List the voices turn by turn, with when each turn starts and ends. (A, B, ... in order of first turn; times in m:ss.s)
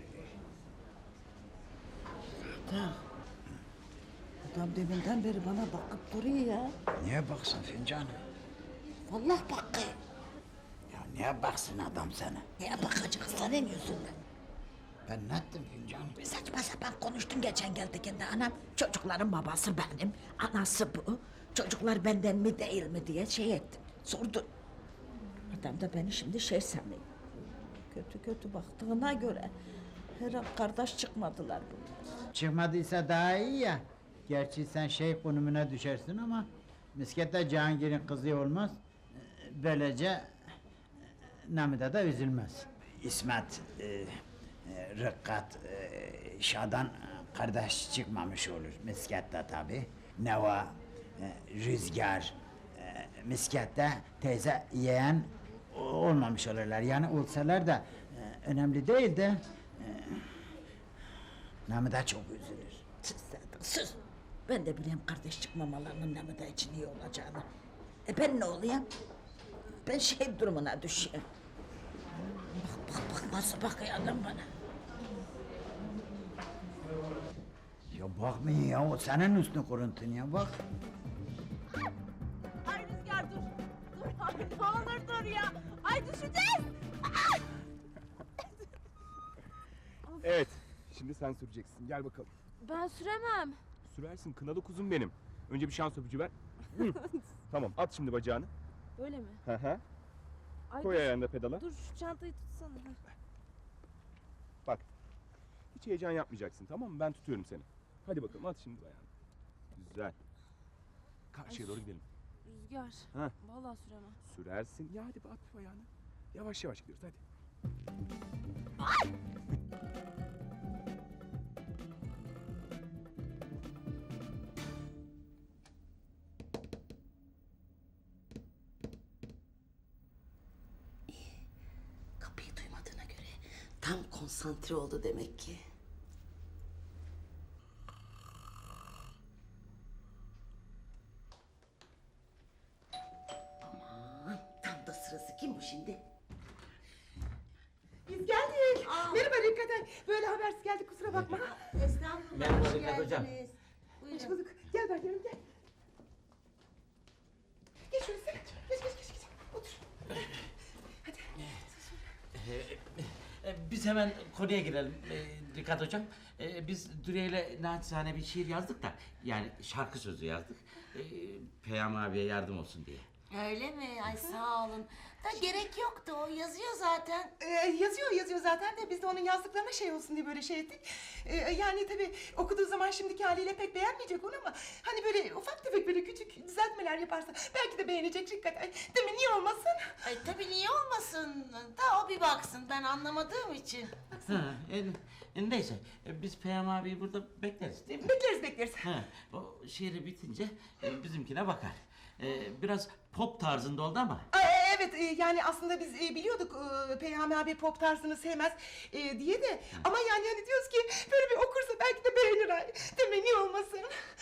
0:02.5-0:03.0 A
0:04.5-0:06.7 A
0:07.0-0:08.1 B
0:09.1-0:09.9 A
0:10.9-0:12.5 B
0:12.6-0:14.2 A
0:15.1-0:16.2 B
0:16.2-0:24.5 A
0:25.5-0:27.0 A
0:27.9-0:29.5 A
0:30.2-0:32.2 A
0:32.3-0:40.3 B
0:41.5-1:00.4 B
1:01.7-1:02.8 B
1:03.0-1:07.4 A
1:08.1-1:08.9 A
1:09.8-1:11.2 A
1:12.3-1:14.5 A
1:17.9-1:20.6 B
1:22.6-1:26.7 C
1:30.2-1:32.3 D
1:32.6-1:33.6 C
1:33.8-1:38.5 D
1:36.9-1:37.2 C
1:39.0-1:39.4 C
1:39.4-1:39.8 D
1:40.7-1:43.0 C
1:40.8-1:41.6 D
1:45.7-1:49.1 D
1:49.8-1:50.2 D
1:51.3-1:52.0 D
1:51.5-1:51.8 C
1:52.5-1:54.2 C
1:54.2-1:57.2 D
2:12.2-2:15.6 E
2:23.6-2:26.0 E
2:28.1-2:31.6 F
2:28.8-2:29.5 E
2:31.2-2:34.4 E
2:32.3-2:33.3 G
2:34.1-2:35.4 F
2:37.9-2:39.8 F
2:41.0-2:41.6 F
2:42.3-2:53.1 G
2:53.3-2:57.3 E
2:57.4-3:10.1 F
3:10.0-3:14.0 E
3:14.1-3:14.4 F
3:14.2-3:18.1 G
3:18.0-3:19.1 F
3:18.8-3:24.2 G
3:24.3-3:33.9 F